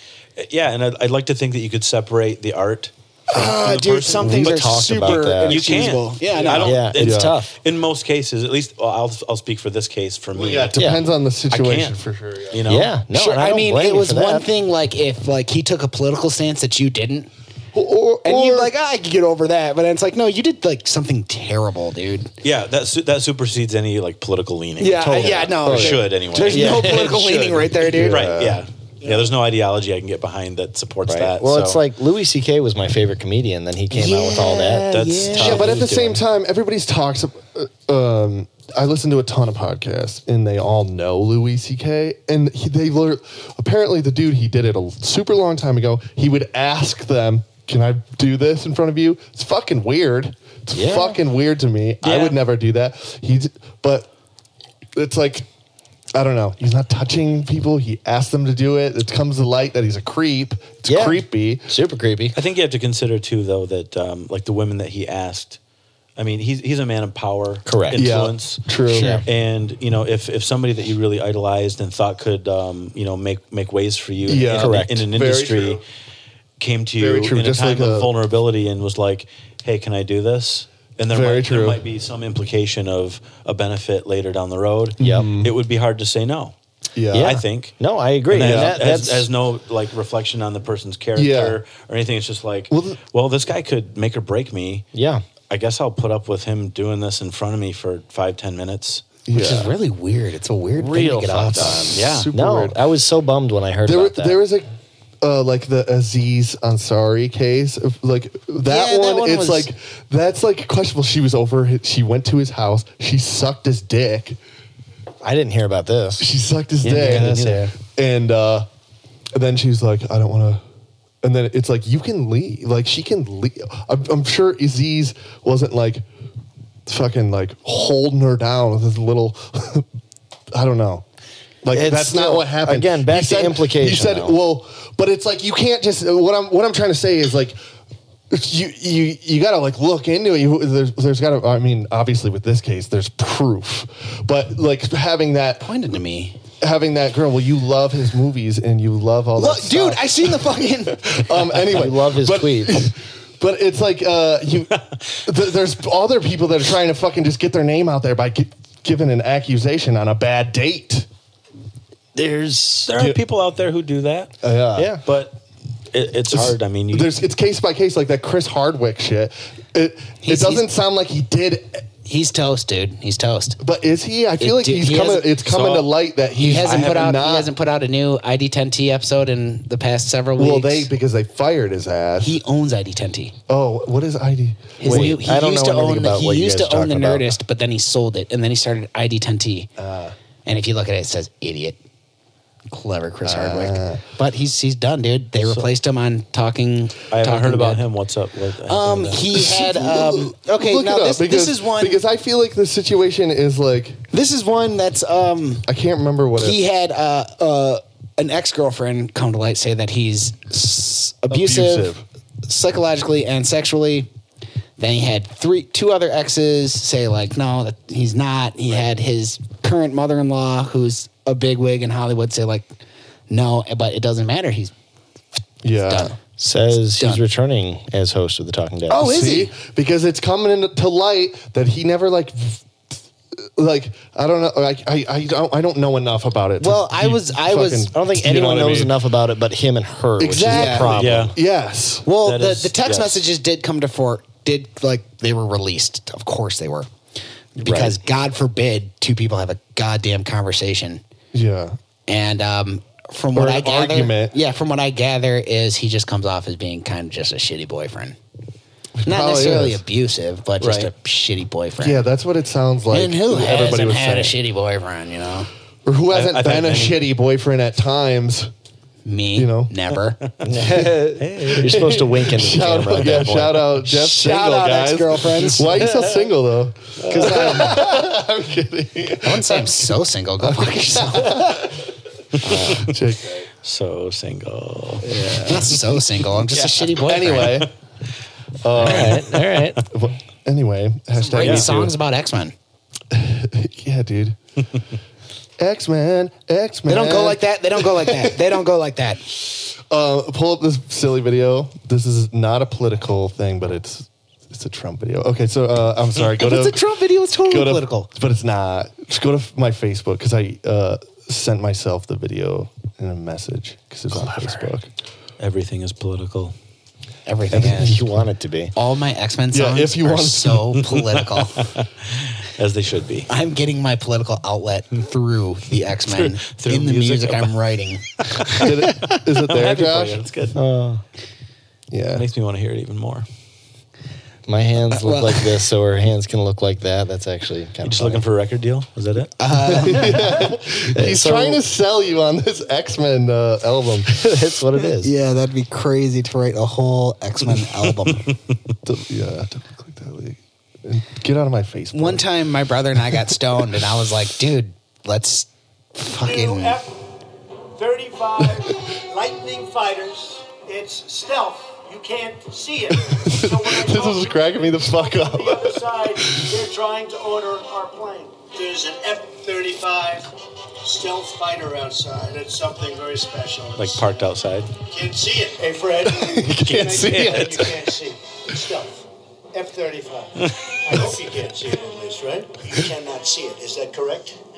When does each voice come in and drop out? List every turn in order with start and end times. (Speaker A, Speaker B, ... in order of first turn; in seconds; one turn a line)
Speaker A: 0.4-10.8
Speaker B: 3.3-6.8
Speaker C: 4.2-6.0
Speaker C: 6.6-7.5
Speaker D: 7.0-7.4
Speaker D: 10.3-12.7
Speaker C: 10.8-11.1
Speaker A: 11.5-12.0
Speaker A: 12.5-12.9
Speaker C: 12.7-14.5
Speaker B: 13.1-17.3
Speaker D: 17.7-18.7
Speaker B: 18.2-22.3
Speaker A: 22.4-27.0
Speaker B: 24.8-28.3
Speaker C: 25.0-25.8
Speaker D: 25.6-26.0
Speaker C: 26.5-27.5
Speaker D: 26.9-28.7
Speaker A: 27.9-31.8
Speaker C: 31.1-35.7
Speaker B: 33.9-35.9
Speaker A: 34.9-36.2
Speaker D: 35.4-54.1
Speaker C: 50.7-51.2
Speaker A: 52.0-52.4
Speaker D: 55.0-55.5
Speaker D: 56.1-61.7
Speaker C: 60.9-62.4
Speaker A: 62.3-65.6
Speaker A: 66.2-68.6
Speaker C: 67.7-68.1
Speaker D: 67.9-69.2
Speaker B: 68.9-69.2
Speaker C: 68.9-69.2
Speaker A: 69.2-75.8
Speaker D: 74.3-75.8
Speaker C: 74.5-75.0
Speaker A: 76.6-86.5
Speaker D: 77.0-78.1
Speaker D: 81.1-81.8
Speaker D: 85.0-85.5
Speaker C: 85.0-85.3
Speaker D: 87.0-87.4
Speaker C: 87.1-89.3
Speaker A: 87.2-87.8
Speaker A: 88.3-94.9
Speaker D: 88.3-88.8
Speaker D: 91.2-91.6
Speaker D: 92.7-93.0
Speaker C: 94.9-95.2
Speaker A: 95.5-99.0
Speaker D: 99.3-99.7
Speaker B: 99.3-102.0
Speaker C: 100.8-104.4
Speaker D: 101.3-102.8
Speaker A: 101.9-102.3
Speaker D: 103.8-104.7
Speaker D: 105.2-114.4
Speaker B: 108.6-109.7
Speaker C: 115.2-116.3
Speaker D: 116.2-118.7
Speaker A: 116.8-117.7
Speaker C: 116.9-117.7
Speaker D: 119.3-120.6
Speaker D: 121.2-126.0
Speaker D: 126.9-129.9
Speaker D: 130.5-131.1
Speaker D: 131.6-137.6
Speaker C: 131.7-134.4
Speaker D: 138.3-145.7
Speaker B: 145.6-146.4
Speaker D: 146.6-161.1
Speaker B: 149.4-151.3
Speaker C: 151.6-152.9
Speaker C: 162.2-162.9
Speaker A: 162.9-164.4
Speaker D: 164.4-165.0
Speaker C: 164.8-165.0
Speaker A: 165.1-165.4
Speaker A: 165.9-167.2
Speaker D: 166.3-171.9
Speaker B: 170.2-170.7
Speaker B: 172.1-173.6
Speaker D: 173.6-177.5
Speaker B: 174.4-175.3
Speaker A: 175.5-175.9
Speaker B: 176.4-180.9
Speaker A: 176.6-177.1
Speaker D: 180.4-182.4
Speaker B: 182.2-183.3
Speaker D: 183.5-185.3
Speaker B: 184.8-189.7
Speaker C: 184.8-187.3
Speaker D: 189.8-190.1
Speaker B: 190.4-191.8
Speaker B: 192.7-197.9
Speaker D: 193.2-194.0
Speaker A: 197.1-199.4
Speaker B: 198.7-202.0
Speaker D: 199.3-204.0
Speaker B: 204.1-205.7
Speaker D: 205.7-206.6
Speaker B: 206.4-211.9
Speaker D: 211.3-212.0
Speaker B: 212.5-214.1
Speaker B: 214.8-222.7
Speaker B: 223.3-224.7
Speaker D: 225.6-226.2
Speaker B: 225.7-227.2
Speaker C: 226.4-229.1
Speaker B: 228.9-229.5
Speaker D: 228.9-232.7
Speaker D: 233.4-238.9
Speaker B: 236.6-237.9
Speaker C: 237.9-241.3
Speaker D: 240.2-242.1
Speaker B: 240.4-241.0
Speaker A: 240.9-241.3
Speaker B: 242.1-246.9
Speaker A: 242.2-243.2
Speaker B: 247.6-251.0
Speaker C: 247.6-248.0
Speaker D: 251.3-251.8
Speaker B: 252.1-258.2
Speaker D: 253.3-254.4
Speaker D: 259.0-259.8
Speaker B: 259.1-262.0
Speaker A: 260.6-260.9
Speaker D: 261.8-264.4
Speaker B: 262.9-265.5
Speaker D: 265.9-268.5
Speaker A: 266.1-267.0
Speaker B: 269.1-270.2
Speaker D: 269.4-269.7
Speaker C: 270.4-273.5
Speaker D: 270.6-281.8
Speaker A: 270.8-272.1
Speaker A: 272.7-273.7
Speaker B: 273.8-275.9
Speaker C: 277.1-277.8
Speaker B: 277.1-277.8
Speaker B: 279.2-281.7
Speaker A: 282.4-282.9
Speaker D: 282.4-283.5
Speaker A: 283.6-285.1
Speaker C: 285.1-285.6
Speaker B: 285.3-287.7
Speaker A: 286.5-287.6
Speaker D: 287.0-287.7
Speaker D: 288.6-291.9
Speaker C: 288.8-289.9
Speaker B: 291.2-292.5
Speaker A: 291.4-291.9
Speaker D: 293.1-294.4
Speaker D: 295.6-298.4
Speaker B: 296.9-299.2
Speaker D: 299.7-306.9
Speaker B: 306.4-308.1
Speaker D: 307.4-314.9
Speaker A: 315.4-316.5
Speaker B: 317.3-318.0
Speaker D: 317.5-318.3
Speaker C: 317.5-318.7
Speaker B: 318.7-321.6
Speaker D: 319.5-320.8
Speaker A: 320.9-323.3
Speaker B: 323.3-328.7
Speaker A: 326.1-327.6
Speaker A: 328.2-330.6
Speaker D: 328.6-330.3
Speaker C: 330.6-331.0
Speaker D: 331.9-332.2
Speaker A: 332.1-333.3
Speaker C: 334.5-338.2
Speaker B: 334.9-335.5
Speaker A: 337.8-339.3
Speaker B: 339.4-340.4
Speaker D: 339.6-344.2
Speaker C: 340.9-341.6
Speaker C: 344.1-345.1
Speaker B: 345.0-348.3
Speaker A: 347.9-348.3
Speaker D: 348.9-352.3
Speaker B: 351.9-356.8
Speaker E: 356.1-357.0
Speaker E: 357.8-374.3
Speaker D: 363.1-366.5
Speaker A: 373.8-374.7
Speaker E: 374.8-384.4
Speaker D: 376.1-377.8
Speaker A: 376.5-377.7
Speaker A: 380.4-380.8